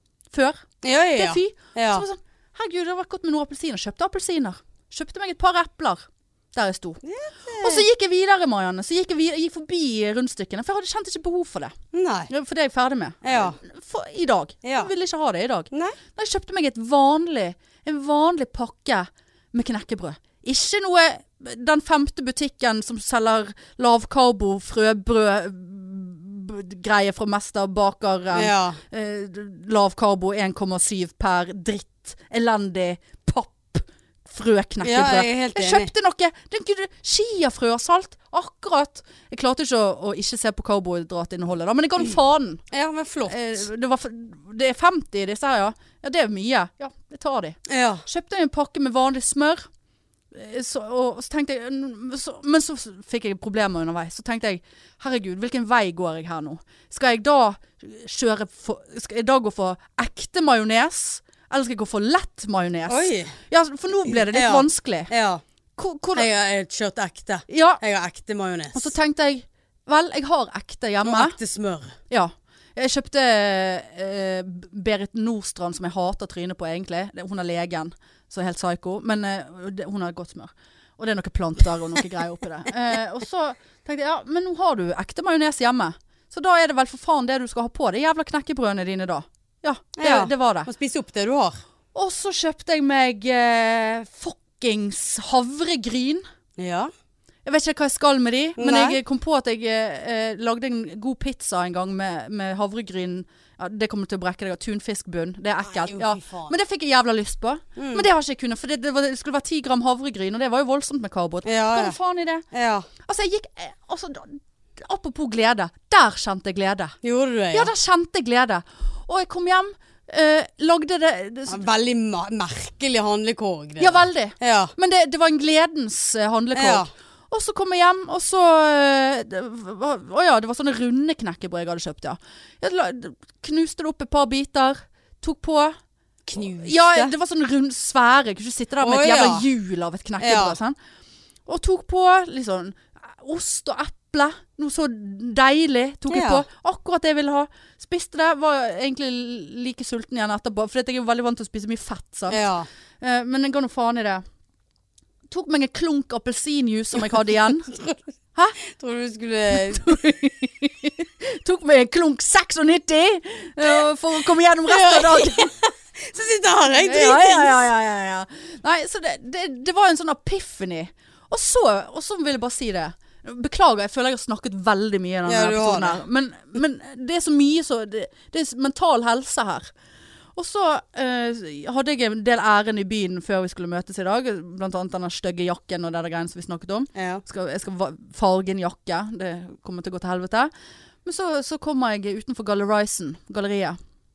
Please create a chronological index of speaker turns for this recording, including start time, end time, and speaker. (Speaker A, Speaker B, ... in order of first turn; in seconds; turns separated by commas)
Speaker A: 0.3-7.0, Speaker B: 0.8-2.0, Speaker B: 7.0-7.8, Speaker A: 7.6-11.8, Speaker B: 11.9-12.3, Speaker A: 12.3-42.6, Speaker B: 13.2-13.6, Speaker B: 14.6-14.9, Speaker B: 15.7-16.0, Speaker B: 28.3-28.8, Speaker B: 34.8-35.9, Speaker B: 42.7-43.6, Speaker A: 43.3-49.7, Speaker B: 47.7-48.0, Speaker A: 50.3-65.1, Speaker B: 62.9-63.3, Speaker B: 64.3-65.4, Speaker A: 65.8-66.3, Speaker B: 66.2-68.9, Speaker A: 67.5-67.8, Speaker A: 68.7-71.4, Speaker B: 71.0-72.0, Speaker A: 72.1-90.7, Speaker B: 90.0-91.6, Speaker A: 91.9-96.2, Speaker B: 96.6-96.9, Speaker A: 97.5-112.4, Speaker B: 98.6-99.0, Speaker B: 105.7-106.5, Speaker B: 107.8-108.1, Speaker B: 111.5-112.0, Speaker B: 112.5-112.9, Speaker A: 113.0-117.0, Speaker B: 117.0-117.7, Speaker A: 117.5-121.7, Speaker B: 121.5-124.7, Speaker A: 123.8-135.8, Speaker B: 126.5-126.9, Speaker B: 136.3-137.1, Speaker A: 136.4-140.8, Speaker B: 138.8-139.5, Speaker B: 140.2-140.6, Speaker A: 141.5-152.4, Speaker B: 146.1-146.5, Speaker B: 152.3-152.7, Speaker A: 153.0-154.2, Speaker A: 155.3-157.7, Speaker B: 157.7-158.0, Speaker B: 158.6-159.9, Speaker A: 159.6-165.5, Speaker B: 164.7-167.7, Speaker A: 166.8-179.7, Speaker B: 175.3-176.0, Speaker A: 180.4-190.5, Speaker B: 186.9-187.2, Speaker A: 191.0-193.8